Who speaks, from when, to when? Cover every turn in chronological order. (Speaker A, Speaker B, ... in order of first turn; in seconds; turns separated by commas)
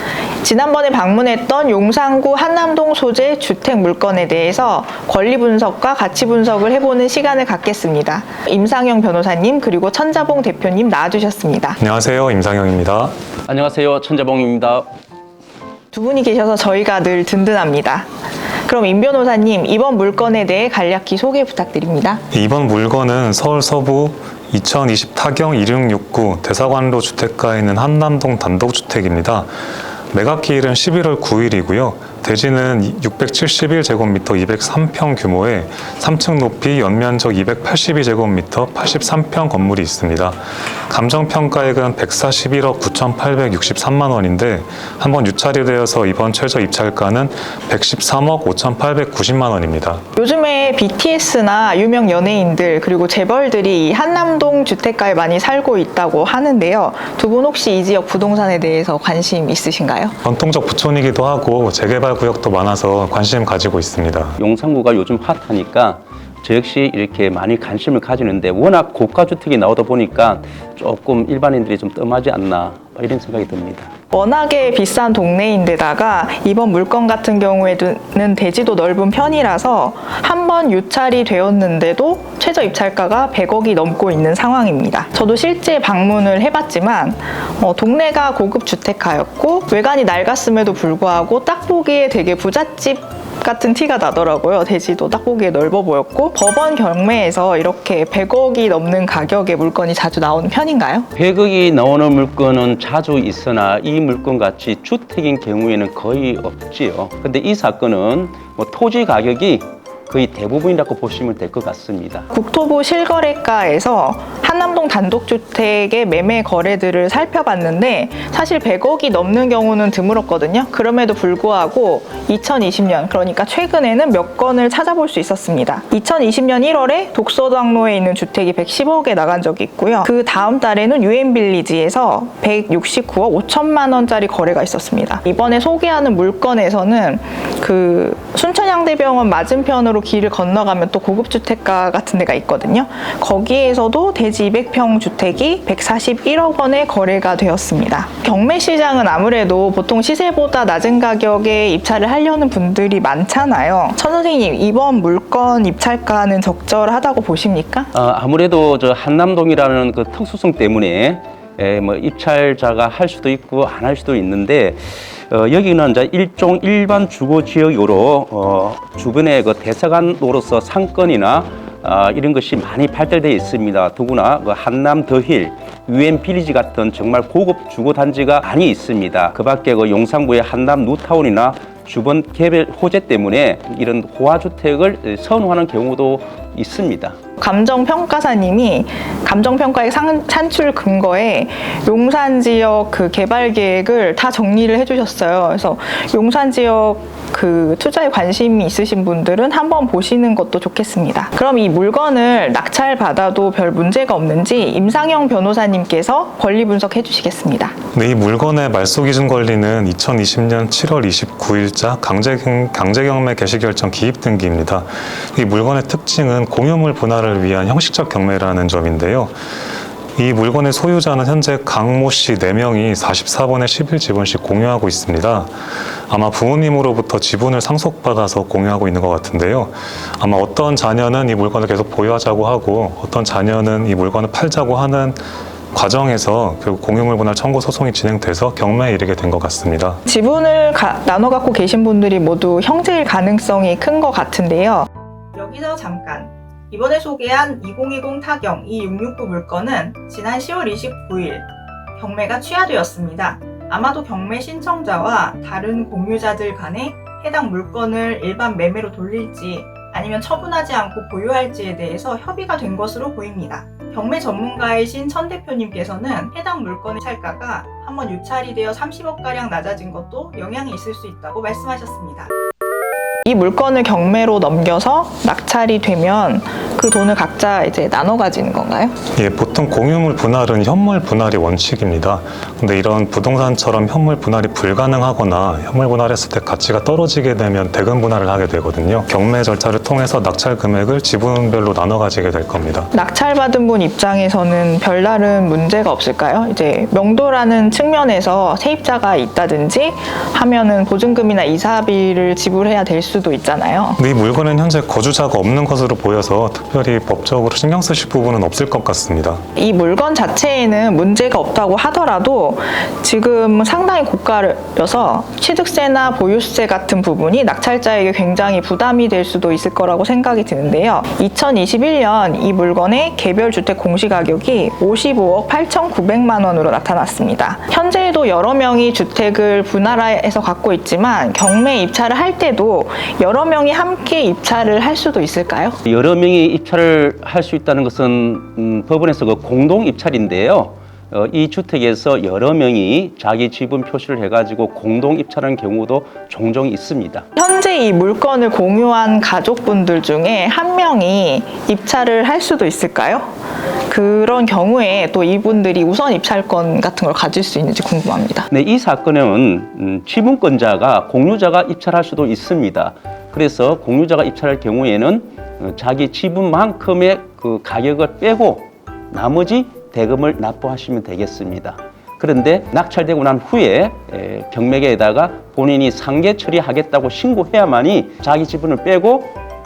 Speaker A: 0.4-11.8, Speaker B: 11.8-13.2, Speaker C: 13.5-14.9, Speaker A: 15.9-18.1, Speaker A: 18.6-22.2, Speaker B: 22.3-29.5, Speaker B: 30.1-50.0, Speaker A: 50.2-60.1, Speaker B: 60.2-64.4, Speaker C: 64.4-73.9, Speaker A: 74.1-101.1, Speaker C: 101.2-112.3, Speaker A: 112.3-157.9, Speaker C: 157.9-187.2, Speaker A: 187.4-207.8, Speaker B: 207.9-219.3, Speaker B: 220.2-235.2, Speaker B: 235.7-240.0, Speaker A: 240.1-272.3, Speaker A: 273.2-278.9, Speaker B: 279.2-292.9, Speaker A: 292.9-304.0, Speaker B: 304.0-309.4, Speaker A: 309.6-335.8, Speaker C: 335.9-347.2, Speaker A: 347.4-353.3, Speaker A: 353.9-358.5, Speaker C: 358.5-379.4